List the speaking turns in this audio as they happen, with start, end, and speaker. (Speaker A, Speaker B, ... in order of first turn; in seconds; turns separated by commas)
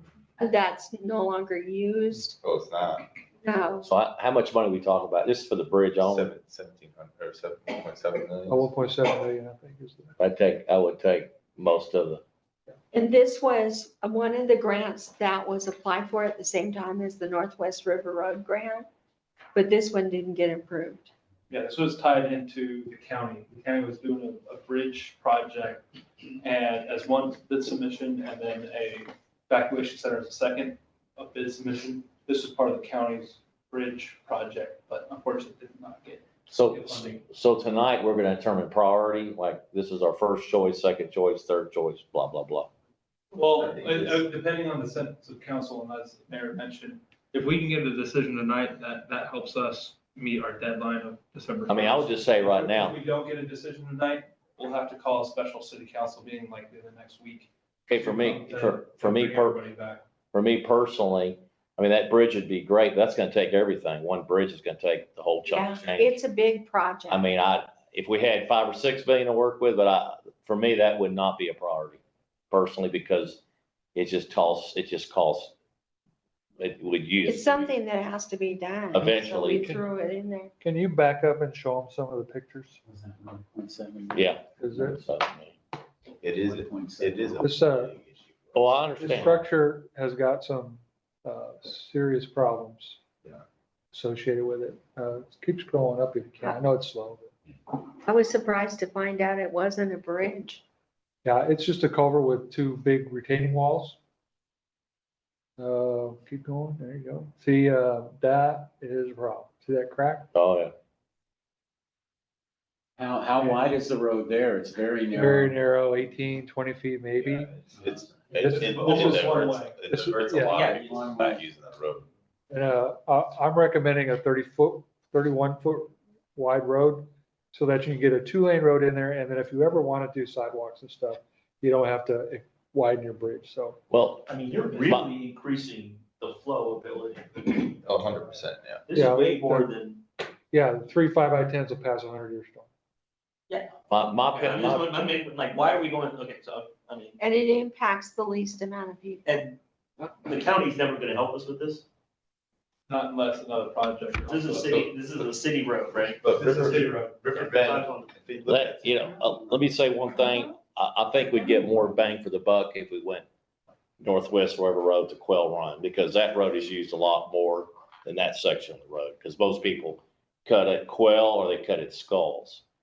Speaker A: 0.4-2.3, Speaker B: 2.4-3.1, Speaker A: 3.4-3.9, Speaker C: 3.8-6.3, Speaker B: 6.0-8.7, Speaker D: 8.5-10.2, Speaker C: 10.2-12.2, Speaker A: 12.9-18.9, Speaker A: 19.5-21.1, Speaker E: 21.5-25.8, Speaker E: 26.4-37.2, Speaker C: 36.5-42.7, Speaker E: 43.3-60.0, Speaker B: 43.6-44.2, Speaker C: 51.7-53.0, Speaker C: 57.9-59.6, Speaker C: 60.3-66.2, Speaker A: 65.5-67.2, Speaker C: 67.1-72.0, Speaker C: 72.5-73.4, Speaker C: 73.9-75.5, Speaker C: 76.6-77.6, Speaker A: 77.2-80.5, Speaker C: 78.9-79.7, Speaker D: 79.0-79.8, Speaker D: 80.6-82.8, Speaker F: 82.9-84.3, Speaker C: 84.1-85.5, Speaker D: 84.5-85.0, Speaker B: 86.2-88.7, Speaker F: 86.5-87.3, Speaker D: 87.4-87.9, Speaker C: 88.5-89.4, Speaker D: 89.0-93.0, Speaker D: 93.9-97.3, Speaker A: 98.0-100.6, Speaker D: 101.2-104.0, Speaker D: 105.6-110.3, Speaker C: 110.3-110.7, Speaker F: 113.0-115.5, Speaker D: 115.1-117.5, Speaker B: 117.2-122.1, Speaker D: 118.4-119.3, Speaker E: 118.4-119.8, Speaker D: 119.9-120.6, Speaker F: 120.5-121.4, Speaker D: 122.5-133.8, Speaker C: 133.9-134.3, Speaker G: 134.3-137.7, Speaker C: 134.8-135.1, Speaker B: 137.8-138.8, Speaker G: 138.9-140.0, Speaker D: 138.9-139.7, Speaker D: 140.5-142.7, Speaker C: 143.9-144.9, Speaker G: 144.3-147.2, Speaker A: 147.2-149.4, Speaker G: 149.2-151.8, Speaker E: 152.9-154.8, Speaker G: 154.3-156.2, Speaker B: 154.6-154.9, Speaker B: 156.2-159.1, Speaker E: 156.3-157.2, Speaker G: 157.2-158.1, Speaker C: 158.5-163.2, Speaker C: 164.0-172.6